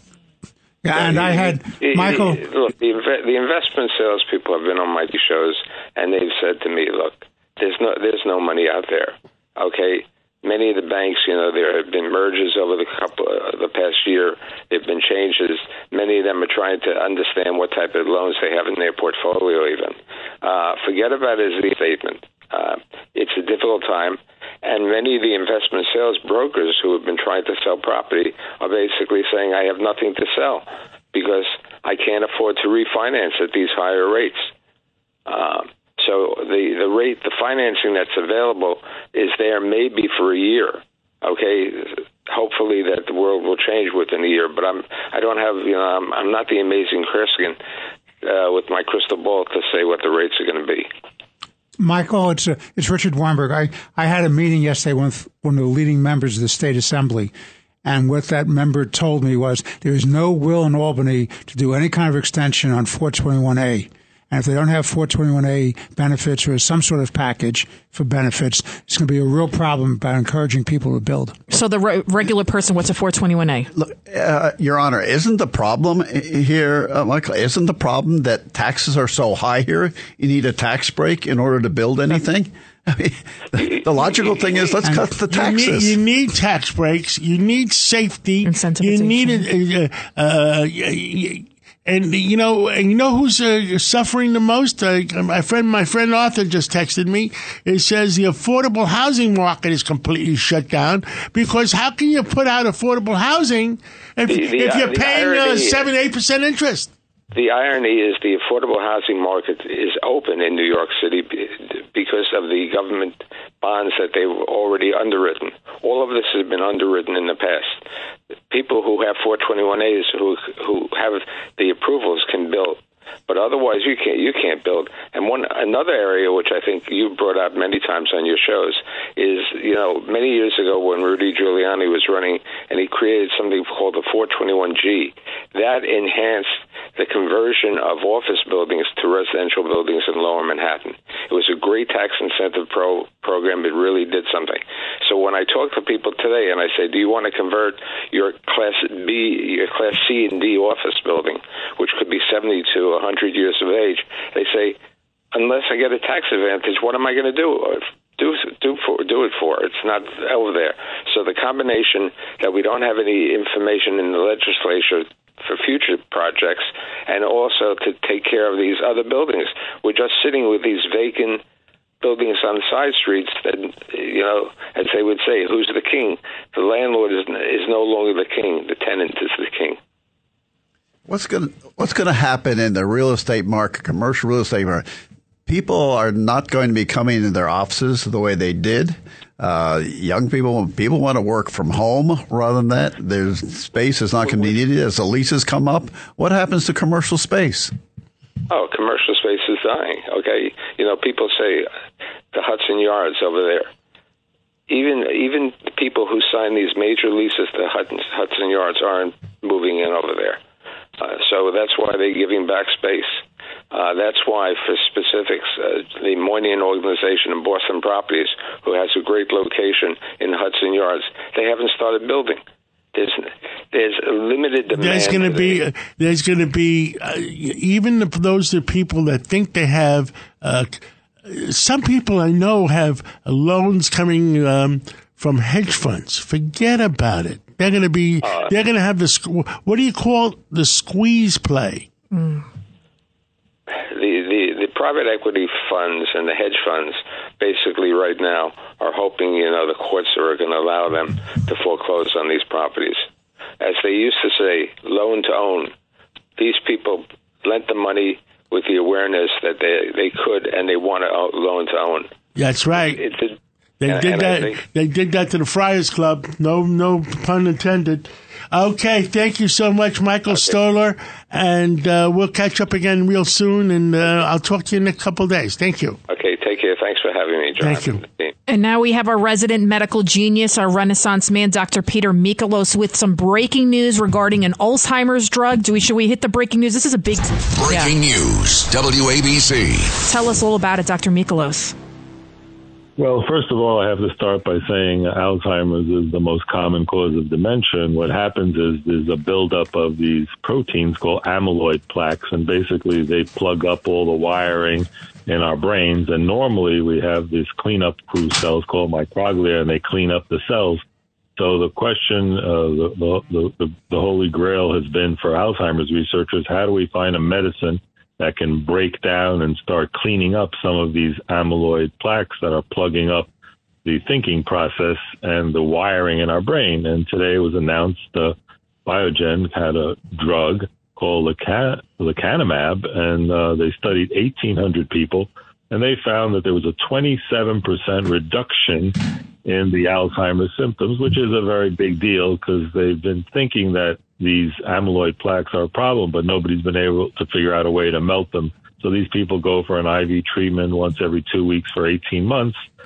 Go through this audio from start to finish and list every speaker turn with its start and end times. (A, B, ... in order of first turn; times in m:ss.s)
0:00.8-0:02.4 A
0:01.1-0:34.5 B
0:35.2-0:47.6 B
0:48.2-0:50.9 B
0:51.8-0:57.3 A
0:57.8-1:11.4 A
1:11.5-1:13.7 C
1:13.7-1:26.0 D
1:24.8-1:25.2 A
1:25.3-1:46.9 E
1:28.4-1:29.5 C
1:44.3-1:45.8 B
1:47.3-1:57.8 B
1:58.5-2:34.8 B
2:35.3-2:51.4 B
2:52.0-2:59.8 B
3:01.1-3:04.8 D
3:05.5-3:17.7 D
3:18.5-3:21.7 B
3:22.3-3:23.7 B
3:24.7-3:30.4 B
3:31.0-3:33.2 B
3:33.7-3:42.4 B
3:42.9-3:45.6 B
3:44.7-4:01.9 E
3:58.2-3:58.5 B
4:02.2-4:02.4 C
4:03.9-4:13.0 B
4:13.6-4:15.7 B
4:16.4-4:22.1 B
4:22.4-4:23.0 E
4:22.7-4:24.6 B
4:23.8-4:36.0 E
4:30.3-4:30.6 B
4:36.1-4:38.3 B
4:37.6-4:38.0 E
4:38.5-4:47.9 C
4:47.5-4:49.9 F
4:50.0-4:51.7 C
4:53.0-5:10.8 G
5:11.4-5:23.3 G
5:23.8-5:52.6 G